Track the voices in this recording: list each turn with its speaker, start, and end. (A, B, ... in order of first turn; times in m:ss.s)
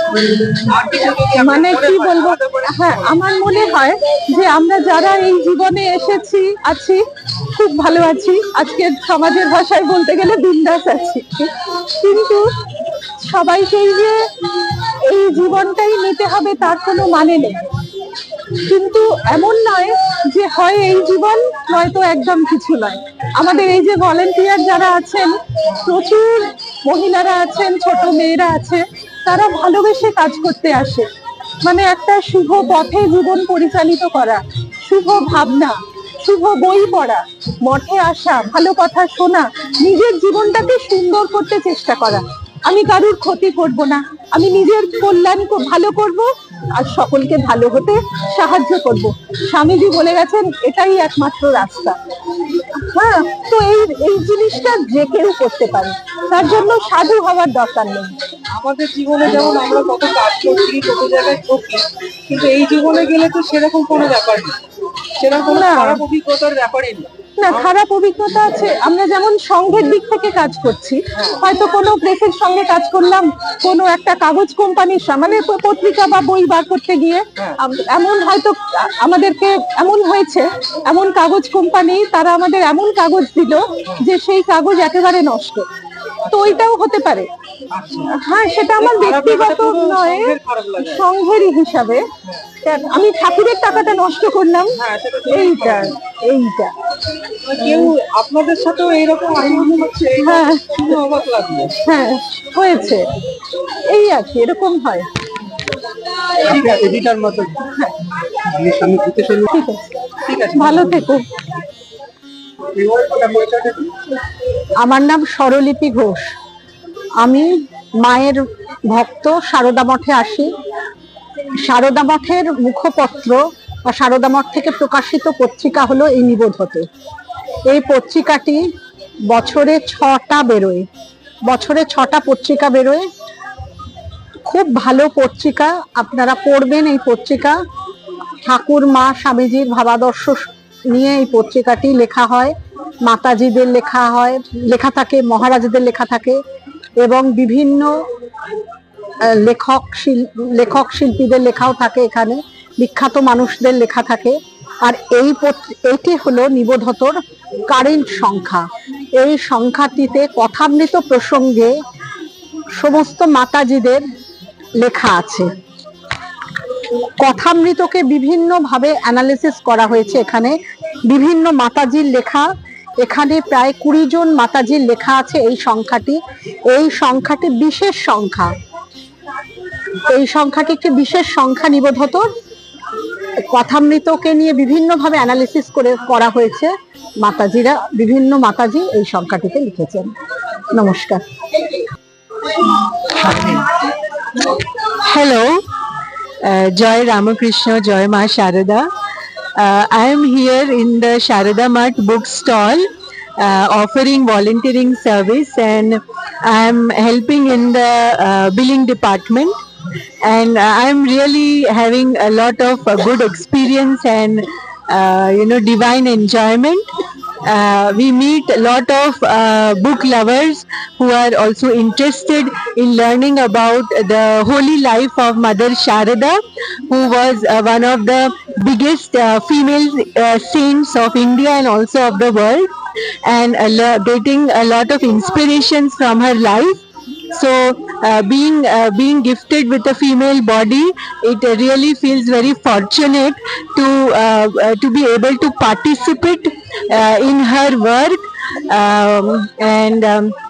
0:00.6-0:03.1 A
0:01.3-0:12.4 B
0:13.2-0:14.2 B
0:15.0-0:17.6 B
0:18.6-0:31.0 B
0:31.6-0:52.0 B
0:52.7-0:58.1 B
0:56.4-0:57.0 A
0:58.5-1:04.6 A
1:05.2-1:07.7 A
1:05.5-1:06.0 B
1:07.4-1:25.6 B
1:11.1-1:11.4 A
1:26.2-1:26.6 A
1:26.3-1:27.3 B
1:27.7-1:28.1 A
1:28.1-1:32.0 B
1:28.8-1:31.0 A
1:32.6-1:34.8 B
1:34.8-1:35.9 A
1:35.3-1:36.7 B
1:37.5-1:41.8 A
1:40.2-1:40.8 B
1:41.8-1:43.0 B
1:43.9-1:45.0 B
1:46.4-1:47.6 A
1:48.4-1:49.5 A
1:49.5-1:49.9 B
1:50.2-1:50.9 A
1:50.5-1:51.2 B
1:52.7-1:53.9 A
1:54.8-1:56.3 C
1:57.2-2:00.5 C
2:01.6-2:06.8 C
2:07.7-2:08.6 C
2:09.3-2:10.8 C
2:11.4-2:13.0 C
2:14.4-2:17.6 C
2:18.4-2:26.4 C
2:27.0-2:27.9 C
2:29.3-2:37.2 C
2:37.7-2:38.6 C
2:39.2-2:41.7 C
2:42.8-2:44.0 C
2:44.8-2:45.5 C
2:47.2-2:50.6 C
2:51.1-2:52.5 C
2:53.0-2:56.2 C
2:56.7-2:58.5 C
3:00.1-3:02.2 C
3:03.5-3:10.1 C
3:10.7-3:11.2 C
3:13.1-3:13.7 D
3:15.0-3:15.6 D
3:16.4-3:18.9 D
3:19.6-3:22.8 D
3:23.4-3:29.5 D
3:30.2-3:36.8 D
3:37.4-3:52.7 D
3:53.2-4:08.2 D
4:08.7-4:10.3 D